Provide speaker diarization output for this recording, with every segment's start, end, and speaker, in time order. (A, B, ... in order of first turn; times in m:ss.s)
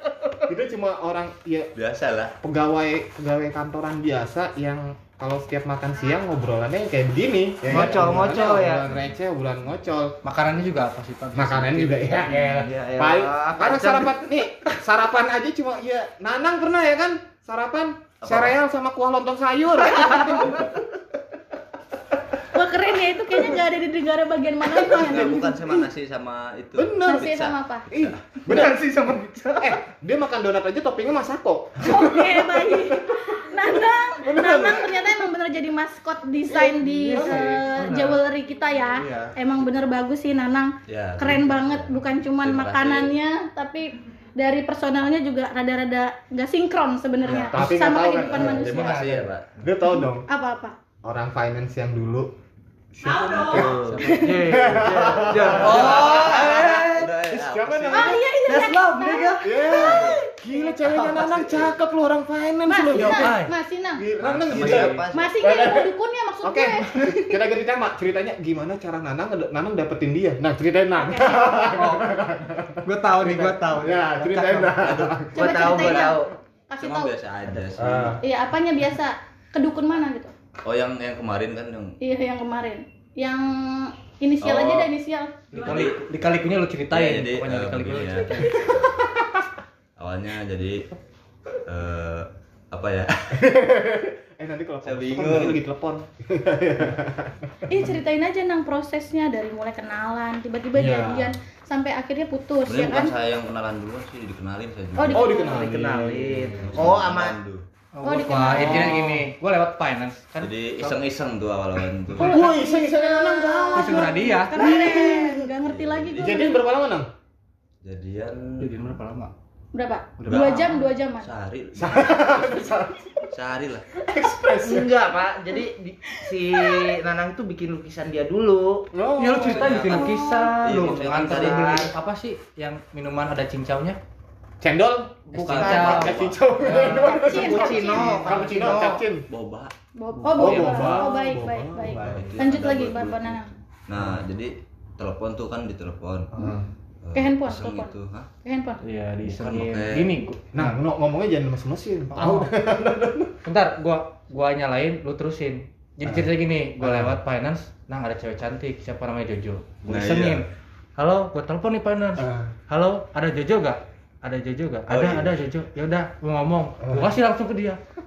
0:00.4-0:01.7 A
0:01.8-0:02.4 B
0:02.4-0:10.2 A
0:07.6-0:08.8 C
0:10.2-0:12.4 D
0:11.4-0:20.5 A
0:12.4-0:14.2 C
0:18.2-0:18.6 B
0:19.8-0:20.8 C
0:22.5-0:25.6 E
0:24.8-0:28.2 B
0:26.7-0:27.3 A
0:27.0-0:27.8 E
0:27.9-0:28.8 A
0:28.4-0:29.8 C
0:29.6-0:32.8 A
0:31.8-0:49.0 E
0:34.2-0:35.0 A
0:36.6-0:37.3 C
0:36.8-0:38.2 D
0:39.0-0:39.3 D
0:40.9-0:43.2 B
0:47.2-0:47.6 D
0:47.5-0:50.3 A
0:48.2-0:49.5 B
0:49.9-0:50.7 E
0:51.0-0:52.3 A
0:52.9-0:56.0 A
0:53.5-0:57.1 C
0:53.6-0:56.4 D
0:54.0-0:54.5 E
0:55.5-0:58.2 B
0:57.3-0:58.2 A
0:57.9-1:00.2 E
0:58.4-1:01.2 C
0:59.4-1:03.4 A
0:59.7-1:00.2 B
1:01.0-1:01.7 B
1:02.7-1:04.0 E
1:03.0-1:03.5 D
1:04.0-1:15.4 A
1:04.2-1:05.4 B
1:04.5-1:05.0 D
1:05.1-1:07.4 E
1:11.0-1:11.7 E
1:11.7-1:12.1 D
1:12.8-1:14.9 D
1:14.8-1:16.2 B
1:15.3-1:16.3 C
1:15.3-1:17.1 E
1:16.8-1:18.2 B
1:17.4-1:17.8 C
1:17.8-1:18.2 A
1:18.2-1:20.3 E
1:20.6-1:22.0 B
1:22.0-1:25.4 E
1:24.4-1:24.9 B
1:25.5-1:28.6 D
1:25.6-1:26.0 B
1:26.9-1:29.0 B
1:30.0-1:30.8 B
1:31.6-1:33.4 B
1:33.3-1:37.8 A
1:34.8-1:35.6 B
1:37.7-1:43.1 E
1:40.8-1:41.3 A
1:42.6-1:45.4 B
1:45.0-1:45.6 E
1:45.1-1:46.9 A
1:45.1-1:47.4 C
1:46.3-1:47.6 B
1:47.9-1:51.0 D
1:48.0-1:49.2 E
1:48.5-1:49.2 A
1:50.4-1:52.4 B
1:52.2-1:55.5 A
1:52.2-1:56.6 E
1:53.7-1:54.6 D
1:55.6-1:56.4 B
1:56.2-1:57.1 A
1:57.8-1:58.8 B
1:58.6-1:59.3 D
1:59.7-2:01.3 E
2:00.2-2:00.7 D
2:00.3-2:02.7 B
2:01.8-2:03.2 A
2:03.3-2:03.9 B
2:04.0-2:04.9 A
2:04.6-2:08.9 C
2:05.5-2:07.0 E
2:08.9-2:09.9 A
2:09.2-2:14.0 D
2:09.4-2:09.9 B
2:09.8-2:10.6 E
2:10.6-2:11.9 B
2:11.3-2:11.8 A
2:14.6-2:19.2 A
2:15.3-2:19.0 C
2:15.3-2:17.1 D
2:15.6-2:16.4 B
2:17.0-2:18.2 E
2:18.0-2:18.5 D
2:19.3-2:19.7 B
2:20.0-2:23.5 E
2:20.2-2:21.1 D
2:20.4-2:22.3 A
2:22.0-2:26.3 B
2:22.0-2:22.3 D
2:26.3-2:26.7 A
2:27.0-2:28.3 B
2:27.1-2:28.8 E
2:28.8-2:30.8 D
2:29.2-2:30.1 B
2:30.5-2:33.3 A
2:32.1-2:32.5 D
2:33.4-2:40.4 D
2:36.0-2:36.3 A
2:36.8-2:37.2 A
2:39.9-2:40.4 B
2:41.0-2:47.8 D
2:42.2-2:42.5 A
2:44.9-2:45.4 B
2:46.8-2:47.1 A